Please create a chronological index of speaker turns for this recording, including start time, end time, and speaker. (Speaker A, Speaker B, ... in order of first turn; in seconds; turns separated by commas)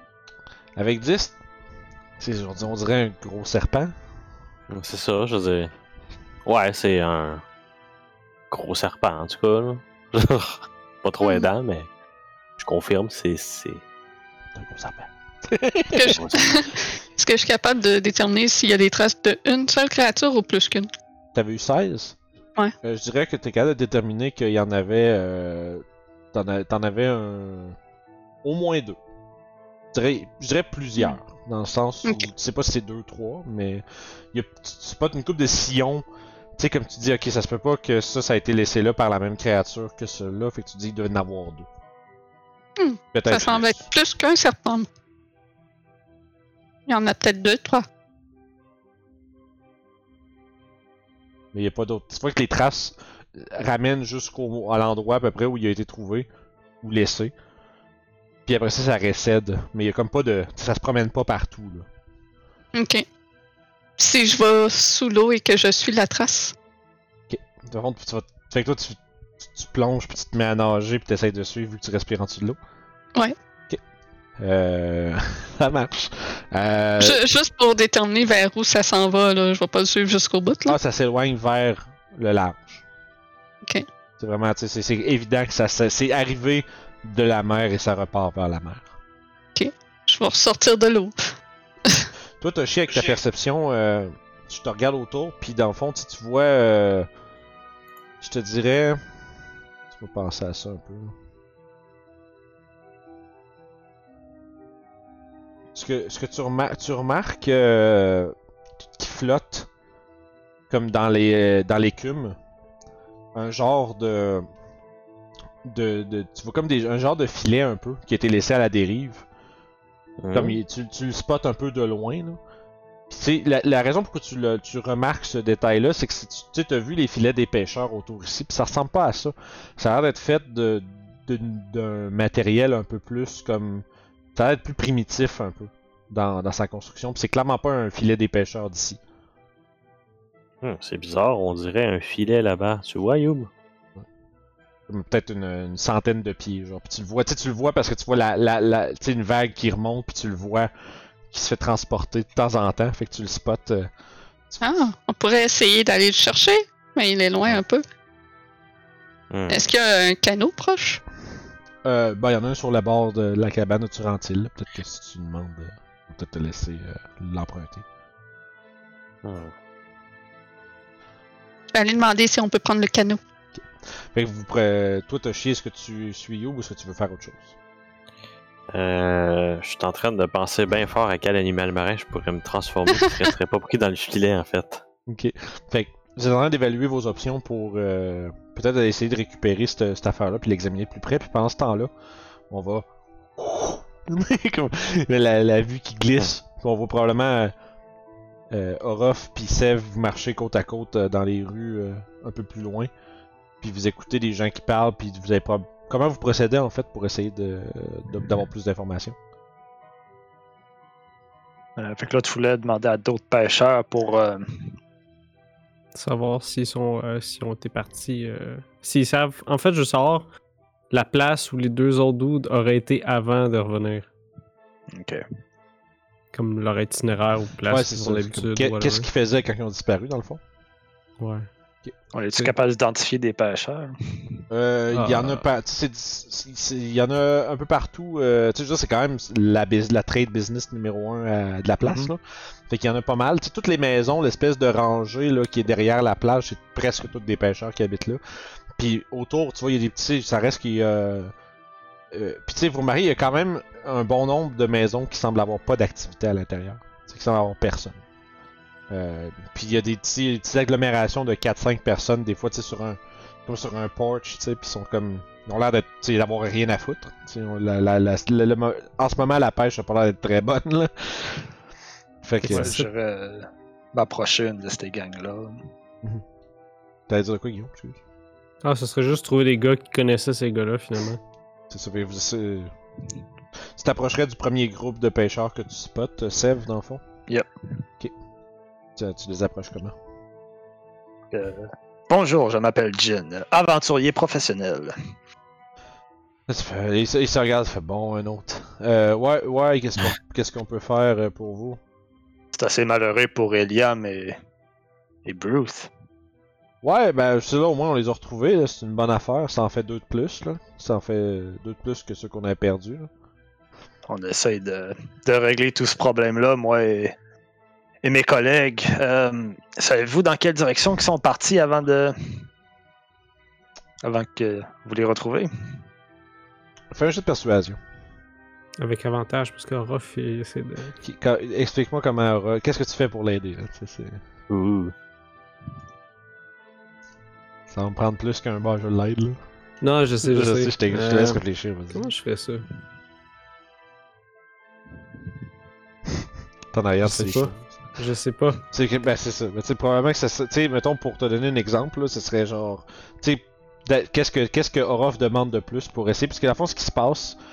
Speaker A: 0.8-1.4, Speaker A: 2.2-3.9, Speaker B: 4.7-5.7, Speaker B: 6.4-7.4, Speaker B: 8.5-11.9, Speaker B: 12.6-13.8, Speaker A: 14.6-16.2, Speaker C: 15.9-20.9, Speaker B: 16.0-16.6, Speaker A: 21.3-22.2, Speaker A: 22.8-27.8, Speaker A: 28.4-29.0, Speaker A: 29.9-36.0, Speaker C: 32.0-32.3, Speaker A: 36.6-41.7, Speaker C: 42.8-44.9, Speaker A: 43.1-43.9, Speaker C: 46.9-47.8, Speaker A: 51.5-56.3, Speaker A: 56.8-57.3, Speaker A: 58.5-61.9, Speaker C: 62.7-63.0, Speaker C: 64.0-66.5, Speaker A: 67.3-72.6, Speaker A: 74.4-77.2, Speaker C: 77.0-80.8, Speaker A: 80.7-82.8, Speaker A: 84.2-88.9, Speaker C: 89.5-91.2, Speaker A: 92.4-97.1, Speaker A: 98.2-99.0, Speaker A: 99.9-101.1, Speaker A: 105.7-108.3, Speaker A: 109.0-109.7, Speaker A: 110.7-112.3, Speaker A: 113.3-114.5, Speaker A: 115.6-119.2, Speaker B: 120.2-120.6, Speaker A: 120.3-122.4, Speaker A: 123.1-133.8, Speaker A: 134.3-139.0, Speaker B: 140.6-143.5, Speaker A: 144.9-150.7, Speaker A: 151.3-153.9, Speaker C: 154.6-157.8, Speaker B: 159.3-159.7, Speaker C: 159.5-161.0, Speaker A: 161.8-167.8, Speaker B: 169.2-169.5, Speaker C: 171.7-173.2, Speaker A: 173.6-177.5, Speaker B: 178.7-184.8, Speaker A: 185.1-191.9, Speaker A: 192.5-197.5, Speaker A: 198.5-202.9, Speaker A: 203.6-209.2, Speaker D: 211.8-214.7, Speaker E: 215.9-220.2, Speaker E: 220.9-224.1, Speaker D: 224.9-225.2, Speaker E: 226.3-229.1, Speaker A: 227.7-230.4, Speaker E: 231.2-231.5, Speaker D: 232.1-234.4, Speaker A: 234.5-248.2, Speaker E: 234.9-235.4, Speaker A: 248.8-251.3, Speaker A: 252.1-258.0, Speaker A: 258.9-271.5, Speaker A: 272.2-272.7, Speaker E: 272.4-272.9, Speaker D: 272.5-275.6, Speaker A: 277.1-278.0, Speaker E: 278.6-281.2, Speaker A: 281.7-282.7, Speaker A: 283.8-287.0, Speaker A: 288.9-289.9, Speaker D: 291.3-294.9, Speaker A: 296.5-301.8, Speaker D: 302.5-304.4, Speaker D: 305.2-305.9, Speaker A: 306.8-313.1, Speaker D: 314.1-317.1, Speaker D: 318.0-322.4, Speaker D: 324.0-325.5, Speaker A: 326.9-327.8, Speaker E: 328.8-330.9, Speaker A: 331.0-334.2, Speaker B: 334.5-334.9, Speaker A: 337.7-339.4, Speaker E: 339.8-342.7, Speaker A: 340.2-342.1, Speaker A: 346.7-347.8, Speaker E: 347.0-348.6, Speaker A: 348.7-357.4